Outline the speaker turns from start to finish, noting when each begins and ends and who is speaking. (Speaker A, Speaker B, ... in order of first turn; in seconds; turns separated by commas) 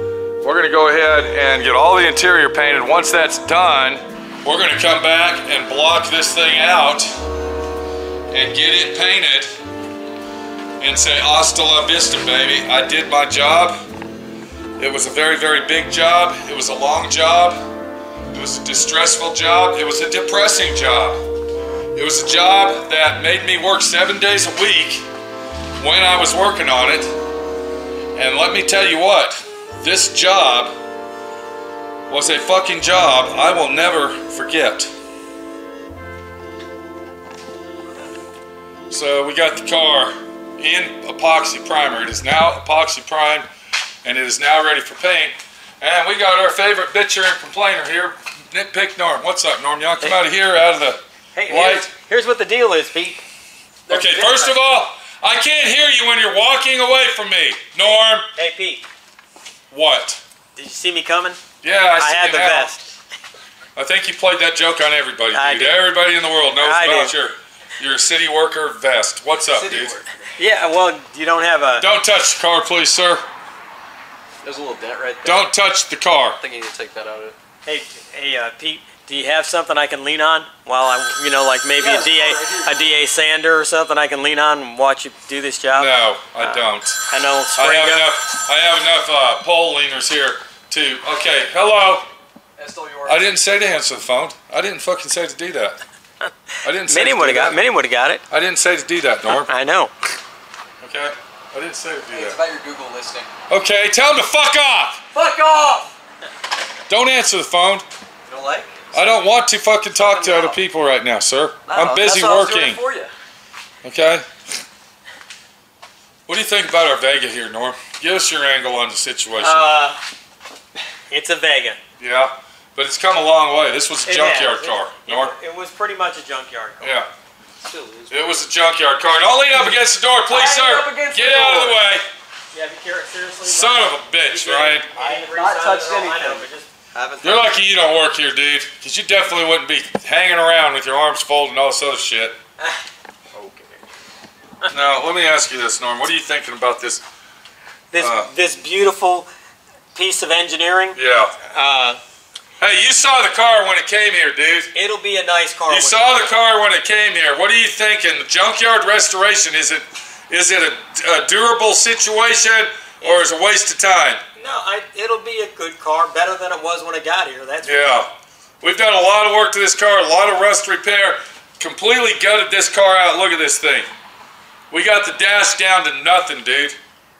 Speaker A: 0.4-7.1, Speaker A: 8.3-9.5, Speaker A: 10.8-13.8, Speaker A: 14.8-17.6, Speaker A: 18.3-21.2, Speaker A: 21.9-25.1, Speaker A: 25.8-27.1, Speaker A: 28.1-30.7, Speaker A: 32.1-34.9, Speaker A: 38.9-43.5, Speaker A: 44.0-51.9, Speaker B: 51.3-53.2, Speaker A: 53.9-58.3, Speaker B: 53.9-54.6, Speaker B: 58.4-58.9, Speaker A: 59.7-60.2, Speaker B: 60.5-61.4, Speaker A: 61.6-62.7, Speaker B: 62.0-62.9, Speaker A: 63.8-70.0, Speaker B: 65.3-65.8, Speaker B: 66.6-67.2, Speaker C: 69.5-70.1, Speaker B: 70.4-71.9, Speaker A: 71.8-73.2, Speaker C: 74.4-75.5, Speaker A: 75.2-76.4, Speaker C: 76.4-77.4, Speaker B: 77.7-86.6, Speaker C: 81.8-82.8, Speaker A: 85.7-92.1, Speaker B: 87.1-88.1, Speaker C: 92.6-93.4, Speaker A: 93.1-95.8, Speaker A: 96.6-97.6, Speaker B: 96.9-98.2, Speaker A: 98.3-99.5, Speaker B: 99.3-99.9, Speaker A: 100.8-102.4, Speaker C: 102.1-103.3, Speaker A: 103.5-105.0, Speaker C: 105.1-105.9, Speaker A: 106.9-107.8, Speaker C: 108.3-109.1, Speaker A: 108.9-112.8, Speaker B: 110.3-110.5, Speaker C: 111.7-113.1, Speaker A: 113.8-114.3, Speaker A: 116.3-119.7, Speaker B: 119.4-120.0, Speaker B: 121.1-121.8, Speaker A: 122.0-125.3, Speaker B: 124.1-127.0, Speaker A: 126.8-127.1, Speaker C: 127.6-128.3, Speaker A: 128.1-132.1, Speaker C: 130.3-131.8, Speaker B: 132.5-137.5, Speaker A: 133.4-134.9, Speaker C: 134.9-136.5, Speaker A: 137.2-142.4, Speaker C: 143.3-143.8, Speaker A: 144.7-147.0, Speaker B: 147.9-149.3, Speaker A: 148.0-148.3, Speaker B: 149.9-151.0, Speaker A: 150.9-151.3, Speaker B: 151.5-152.0, Speaker A: 152.6-154.7, Speaker B: 154.7-156.3, Speaker A: 155.7-164.2, Speaker B: 164.4-167.9, Speaker A: 167.6-168.1, Speaker A: 168.6-173.9, Speaker A: 174.7-176.8